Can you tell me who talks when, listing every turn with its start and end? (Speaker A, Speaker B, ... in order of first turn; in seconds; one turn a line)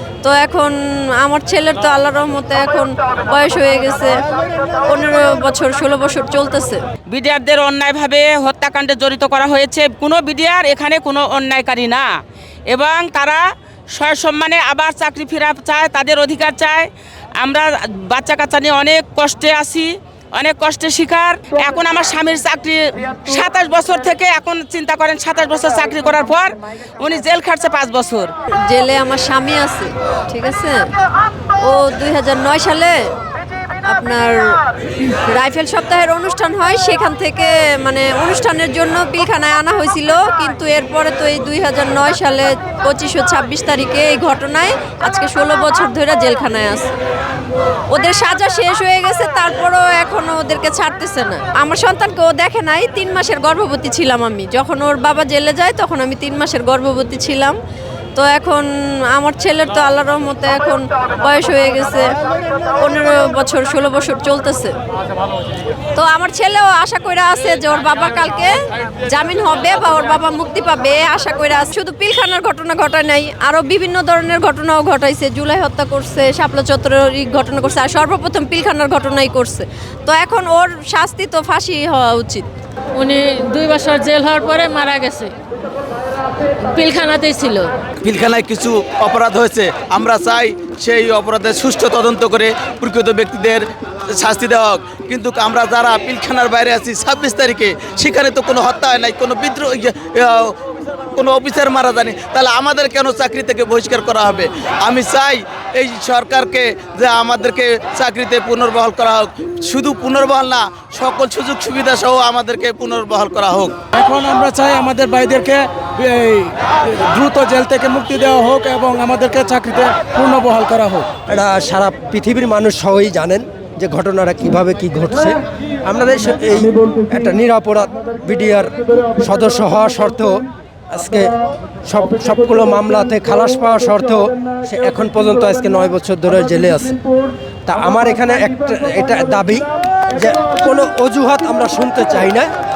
Speaker A: 0.2-4.1
Speaker A: 4.9-6.8
Speaker B: 7.1-12.1
Speaker B: 12.7-13.4
Speaker B: 13.9-16.9
Speaker B: 17.4-28.3
Speaker A: 28.7-30.8
Speaker A: 31.6-33.0
Speaker A: 33.9-34.4
Speaker A: 35.0-46.9
Speaker A: 47.9-57.5
Speaker A: 58.1-62.1
Speaker A: 62.8-64.7
Speaker A: 66.0-68.5
Speaker A: 69.1-82.5
Speaker C: 83.0-85.3
Speaker C: 86.5-87.7
Speaker D: 88.0-113.8
Speaker E: 113.9-121.1
Speaker F: 121.3-130.4
Speaker F: 130.9-131.3
Speaker F: 131.9-137.0
Speaker F: 137.7-142.5